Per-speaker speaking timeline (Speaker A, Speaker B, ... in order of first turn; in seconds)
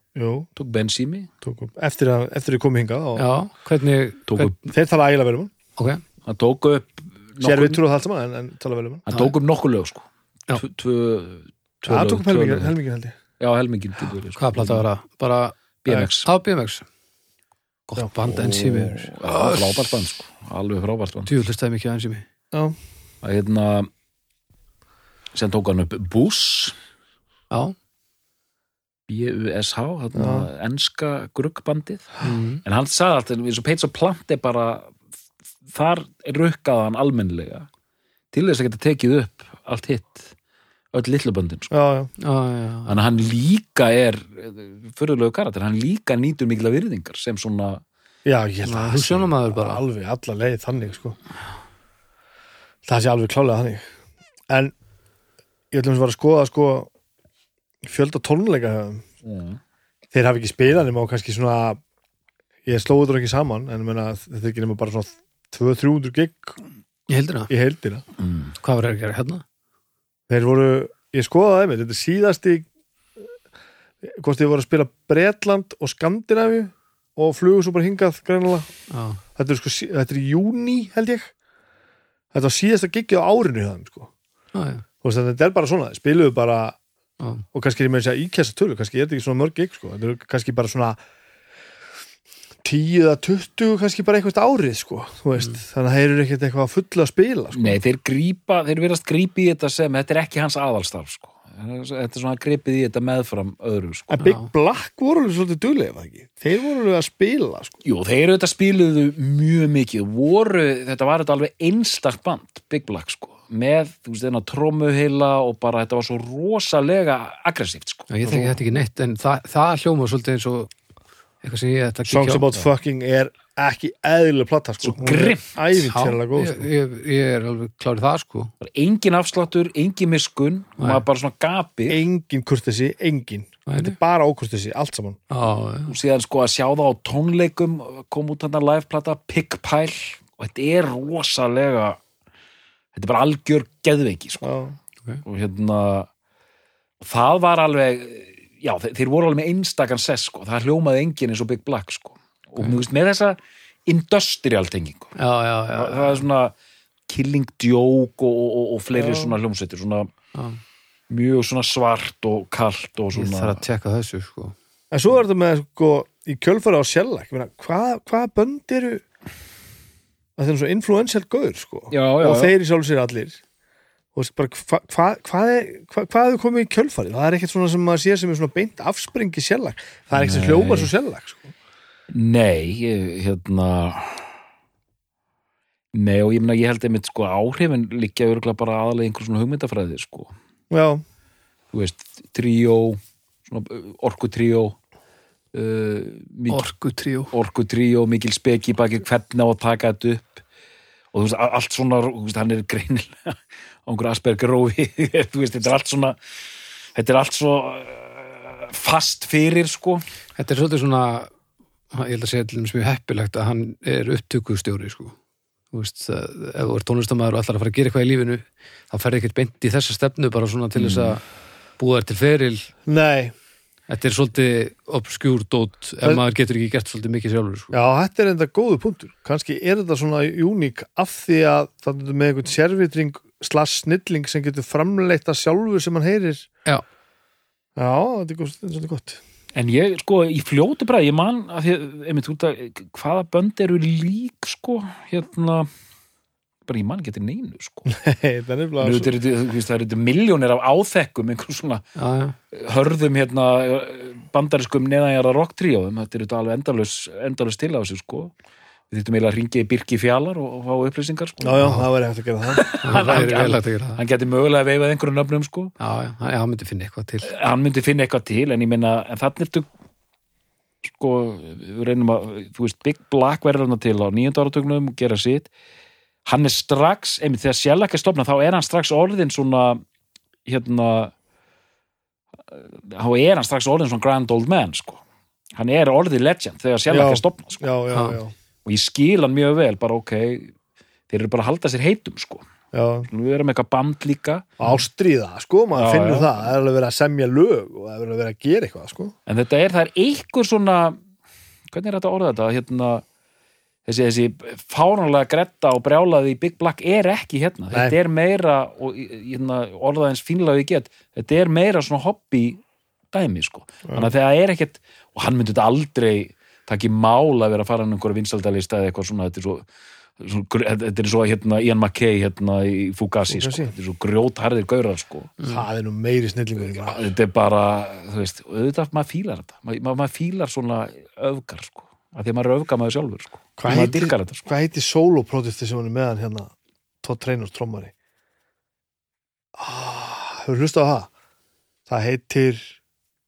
Speaker A: 0.1-0.5, 1.4-3.3, 4.7-5.5, 7.4-9.1, 11.9-13.2, 22.5-22.8, 30.1-30.5, 41.7-42.1, 48.2-51.2, 52.9-53.9, 54.5-54.7, 55.7-56.9, 57.8-59.0, 60.1-61.8, 62.7-66.6, 67.5-68.0, 70.3-72.7, 74.0-78.7, 79.4-81.3, 82.3-84.1, 85.0-86.8, 87.5-91.0, 92.6-97.8, 104.1-107.8, 118.2-118.6, 122.1-126.7, 131.9-135.2, 144.4-144.8, 158.9-159.4, 164.9-169.0, 170.4-173.4, 174.2-181.5, 190.7-191.0, 222.9-223.3, 227.7-236.5, 237.8-239.2, 247.9-249.1, 261.4-263.3, 286.9-288.3, 292.7-293.1, 294.6-299.1, 313.9-314.1, 323.3-323.7, 325.4-327.1, 333.6-337.9, 339.6-341.1, 341.9-342.8
Speaker B: 0.6-1.3, 4.3-4.6, 6.2-7.8, 9.1-12.7, 13.4-14.9, 15.8-16.3, 18.3-21.3, 23.2-23.9, 25.3-26.8, 29.1-34.9, 35.6-37.7, 38.3-40.3, 40.9-41.7, 42.9-47.8, 59.2-59.6, 68.2-68.5, 97.5-104.2, 107.8-118.1, 124.8-125.8, 128.6-132.0, 135.9-142.0, 142.9-144.5, 145.2-146.1, 147.0-155.2, 155.7-156.5, 157.1-160.1, 161.1-163.6, 171.9-172.6, 180.1-180.9, 182.1-184.3, 185.9-190.3, 191.7-194.8, 195.5-196.7, 197.3-200.4, 201.1-206.2, 206.9-210.0, 220.8-221.2, 239.5-245.7, 246.7-247.9, 248.8-251.9, 252.5-258.3, 258.9-261.8, 262.5-265.7, 267.2-269.7, 270.9-275.5, 276.2-279.8, 280.5-281.1, 282.5-285.0, 285.6-287.7, 288.6-290.5, 291.1-292.4, 293.1-294.5, 295.7-296.5, 299.3-301.0, 301.7-303.0, 303.9-319.6, 320.2-325.4, 326.7-334.5
Speaker C: 3.2-4.5, 5.8-6.0, 14.4-16.9, 17.9-20.0, 21.3-22.2, 32.2-32.6, 42.2-43.0, 48.6-49.8, 67.1-67.5, 68.6-69.4, 78.9-79.2, 84.5-84.8, 87.2-87.5, 104.2-104.5, 118.1-120.7, 121.4-122.5, 125.9-128.5, 130.8-131.0, 133.7-134.0, 135.3-135.9, 155.2-156.2, 160.3-160.6, 163.1-164.6, 196.5-197.3, 210.4-211.3, 211.9-215.2, 215.7-221.2, 221.8-222.7, 223.9-227.8, 252.0-252.3, 262.8-264.0, 265.8-267.3, 287.9-288.2